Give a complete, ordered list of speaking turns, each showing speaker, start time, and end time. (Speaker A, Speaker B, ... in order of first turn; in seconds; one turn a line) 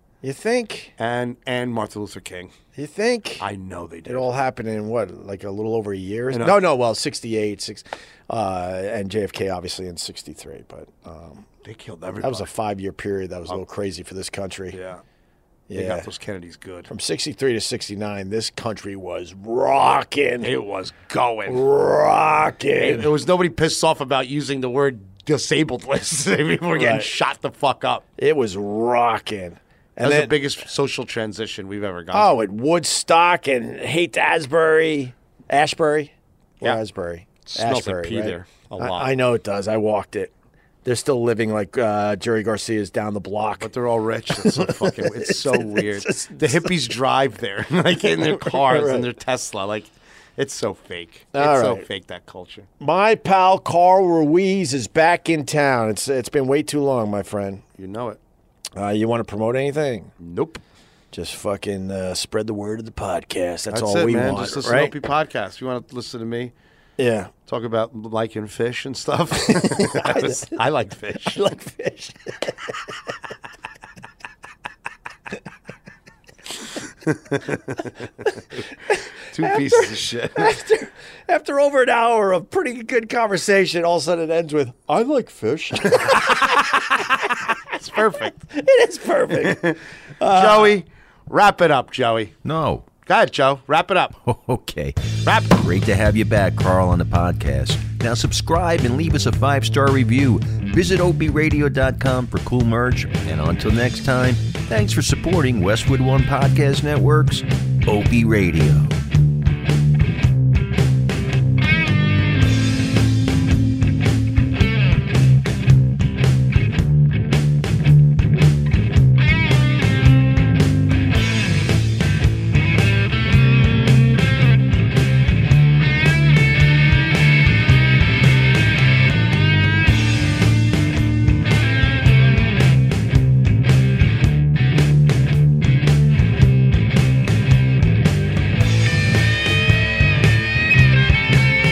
Speaker A: 0.2-0.9
Speaker B: 1.0-2.5
Speaker A: 2.8-3.4
Speaker B: 3.4-4.4
Speaker A: 4.1-11.5
Speaker B: 6.3-6.6
Speaker B: 11.6-12.5
Speaker A: 12.2-14.8
Speaker B: 14.7-15.0
Speaker A: 15.7-16.1
Speaker B: 15.7-16.9
Speaker A: 16.9-20.5
Speaker B: 20.4-21.6
Speaker A: 21.5-23.1
Speaker B: 22.8-28.0
Speaker A: 26.8-27.1
Speaker A: 28.2-30.4
Speaker B: 30.0-32.3
Speaker A: 32.1-40.3
Speaker B: 37.5-39.1
Speaker A: 40.9-43.7
Speaker B: 43.6-52.7
Speaker A: 44.3-46.9
Speaker A: 48.4-49.1
Speaker A: 51.3-51.9
Speaker A: 52.8-57.6
Speaker B: 57.8-58.2
Speaker A: 58.8-60.1
Speaker B: 60.2-60.6
Speaker A: 61.1-64.9
Speaker B: 63.7-66.5
Speaker A: 67.0-67.3
Speaker B: 67.5-71.4
Speaker A: 69.4-70.6
Speaker A: 71.3-73.1
Speaker B: 77.1-78.6
Speaker A: 78.9-86.8
Speaker B: 79.3-80.5
Speaker B: 85.9-88.4
Speaker A: 88.4-90.8
Speaker B: 89.3-92.4
Speaker C: 92.4-92.9
Speaker B: 93.1-94.2
Speaker C: 94.2-109.0
Speaker B: 95.2-95.6